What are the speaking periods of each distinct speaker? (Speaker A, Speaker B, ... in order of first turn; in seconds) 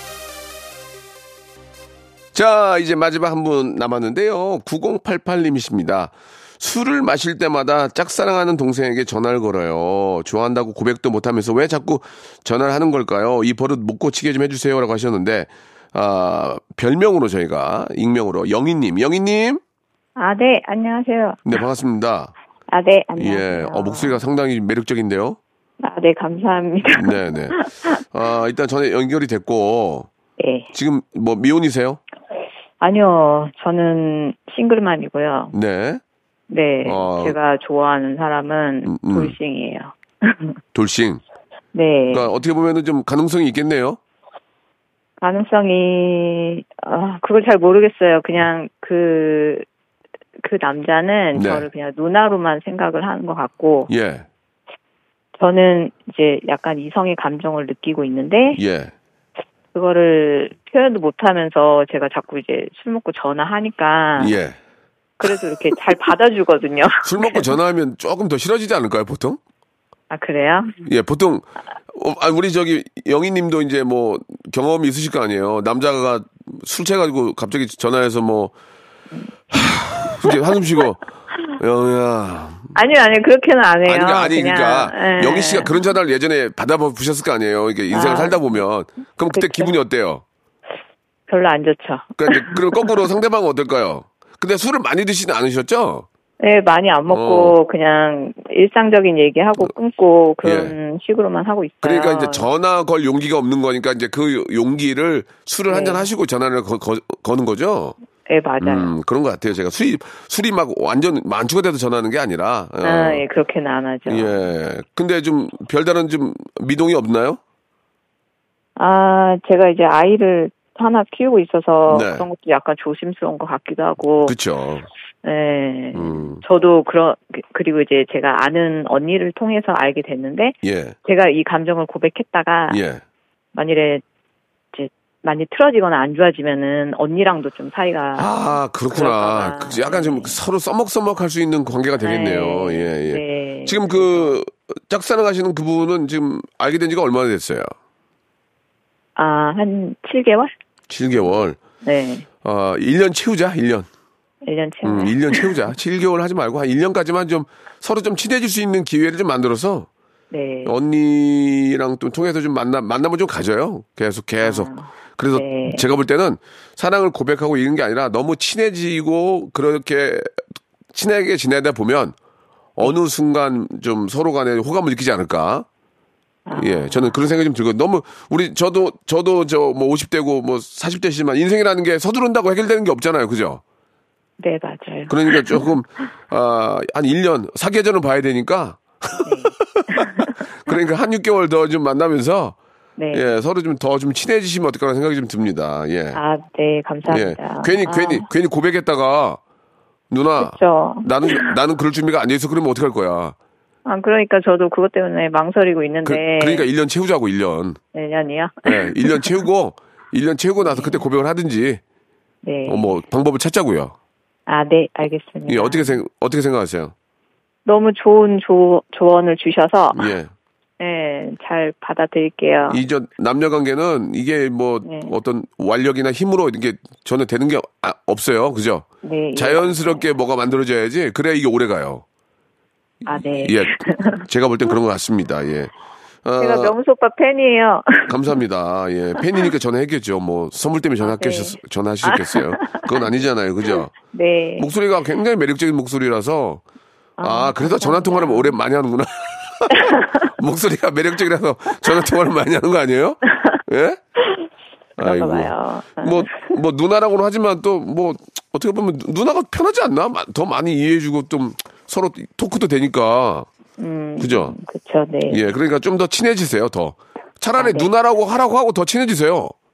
Speaker A: 2.3-19.6, 21.4-22.3, 23.2-25.4, 26.9-27.6, 28.1-30.1, 30.7-32.0, 35.5-36.0, 36.8-37.4, 38.8-39.3, 40.7-41.2, 42.1-44.0, 51.3-51.7, 53.9-54.2, 58.5-58.9, 64.2-64.6, 67.0-69.4, 70.8-78.5, 79.5-81.0, 81.6-82.7, 83.8-90.2, 92.2-96.0, 97.1-97.5, 100.4-100.7, 101.8-107.9, 108.6-113.2, 114.1-117.4, 121.9-122.2, 124.2-124.8, 125.9-126.4, 130.6-131.0, 132.7-133.0, 138.2-147.7, 150.9-151.6, 152.4-153.9, 154.8-159.9, 160.6-170.3, 170.9-172.2, 172.8-175.7, 176.6-183.6, 185.1-190.0, 190.7-192.6, 193.1-196.2, 197.1-199.4, 200.1-203.3, 206.0-207.8, 208.7-211.8, 212.7-213.9, 215.5-216.9, 220.0-220.3, 222.7-232.0, 233.4-235.7, 236.2-236.7, 238.1-243.9, 244.6-246.6, 247.2-254.0, 255.0-263.5, 264.2-264.5, 265.3-269.5
Speaker B: 20.2-21.6, 22.7-24.2, 25.8-28.0, 30.4-30.7, 32.8-35.5, 36.5-40.5, 41.7-42.3, 45.2-49.6, 50.4-53.9, 55.4-58.6, 59.7-64.4, 65.2-67.5, 70.1-70.8, 82.7-85.7, 87.9-88.5, 89.3-89.7, 91.3-93.0, 96.4-102.5, 105.7-106.1, 108.3-108.9, 112.8-114.4, 118.8-124.3, 125.2-132.8, 133.5-134.0, 134.7-138.4, 138.9-140.4, 142.0-144.4, 149.2-150.5, 151.8-152.3, 154.4-155.5, 160.3-160.7, 164.4-165.9, 176.4-177.1, 184.4-185.7, 189.2-190.8, 193.0-193.2, 196.1-198.3, 200.4-201.5, 203.8-206.7, 207.9-209.4, 210.6-211.0, 212.4-213.0, 214.5-216.0, 217.7-220.1, 220.8-222.8, 224.8-225.1, 229.0-230.0, 233.1-234.2, 236.4-238.3, 241.0-243.0, 244.1-244.7, 247.2-248.6, 255.0-256.5, 263.8-265.4, 267.6-267.9